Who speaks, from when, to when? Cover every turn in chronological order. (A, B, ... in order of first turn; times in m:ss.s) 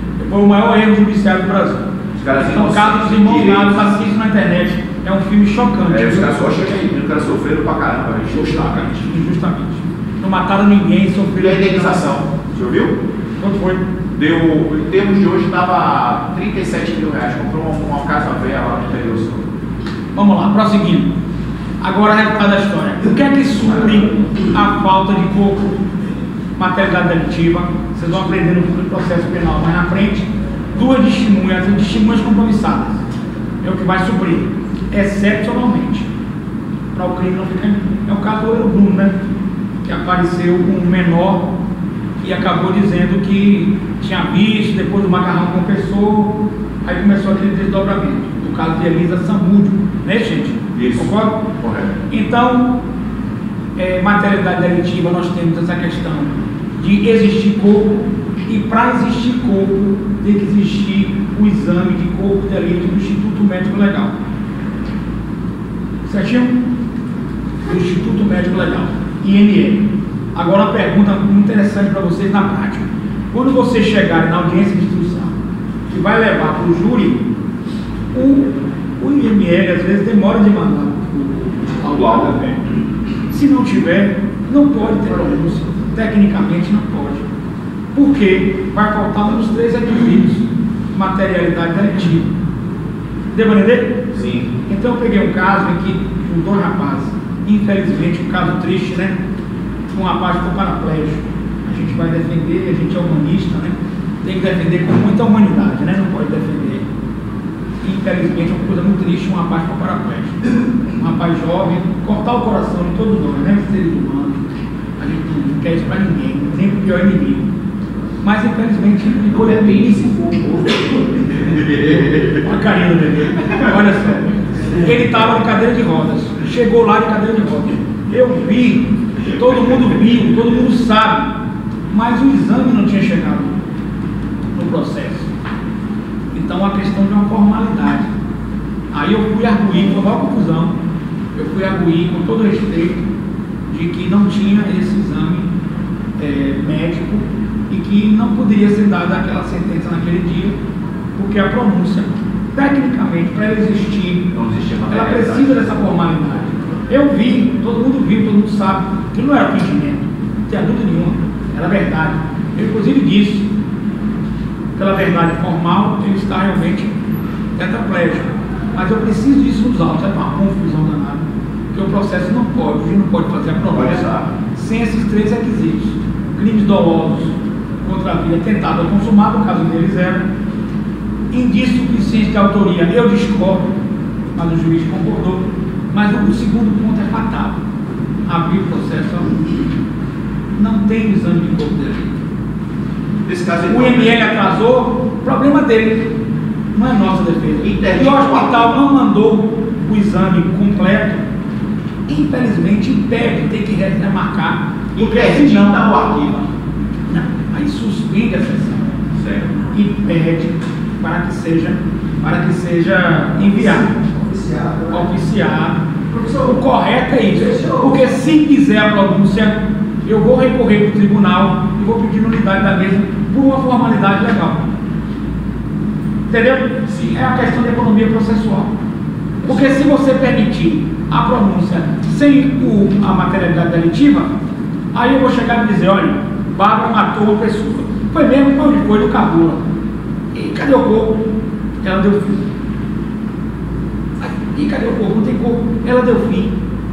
0:00.2-0:06.4 A
0:02.2-0:03.9 B
0:05.9-0:09.0 B
0:08.3-0:12.1 A
0:11.4-0:13.0 B
0:13.4-0:13.8 A
0:14.2-0:19.4 B
0:20.1-0:21.1 A
0:21.8-0:25.6 A
0:26.6-0:33.0 A
0:33.6-0:36.1 A
0:36.9-0:39.2 A
0:39.8-0:41.5 A
0:42.2-0:51.4 A
0:50.7-0:51.9 B
0:52.1-0:52.7 A
0:53.8-1:04.2 A
1:06.0-1:06.6 A
1:07.6-1:15.3 A
1:15.9-1:17.2 A
1:18.1-1:22.6 A
1:21.9-1:22.4 B
1:23.3-1:27.2 A
1:27.9-1:32.3 A
1:33.3-1:34.0 A
1:34.1-1:34.5 B
1:34.7-1:39.2 A
1:39.9-1:46.8 A
1:47.8-1:50.4 A
1:51.0-1:54.4 A
1:55.0-1:57.4 A
1:58.2-2:00.2 A
1:59.3-2:02.5 B
2:02.4-2:11.4 A
2:11.9-2:13.6 A
2:14.5-2:15.3 A
2:16.3-2:18.1 A
2:18.9-2:20.8 A
2:21.3-2:23.0 A
2:23.7-2:25.5 A
2:26.2-2:30.6 A
2:31.2-2:34.3 A
2:34.3-2:35.8 B
2:34.9-2:43.5 A
2:44.7-2:47.0 A
2:47.6-3:00.3 A
2:53.7-2:54.3 B
3:01.3-3:03.7 A
3:04.4-3:07.6 A
3:08.3-3:09.4 A
3:10.6-3:12.2 A
3:13.3-3:14.6 B
3:13.7-3:16.1 A
3:16.7-3:21.2 A
3:17.6-3:18.7 B
3:22.1-3:25.9 A
3:24.9-3:26.4 B
3:27.1-3:29.0 A
3:29.2-3:29.5 B
3:29.7-3:33.9 A
3:33.4-3:35.2 C
3:34.9-3:44.7 A
3:36.1-3:36.6 C
3:37.3-3:38.2 C
3:46.3-3:48.7 A
3:46.9-3:47.3 B
3:49.4-3:54.3 A
3:54.9-3:59.7 A
4:00.3-4:01.3 A
4:01.8-4:02.4 A
4:04.2-4:06.6 A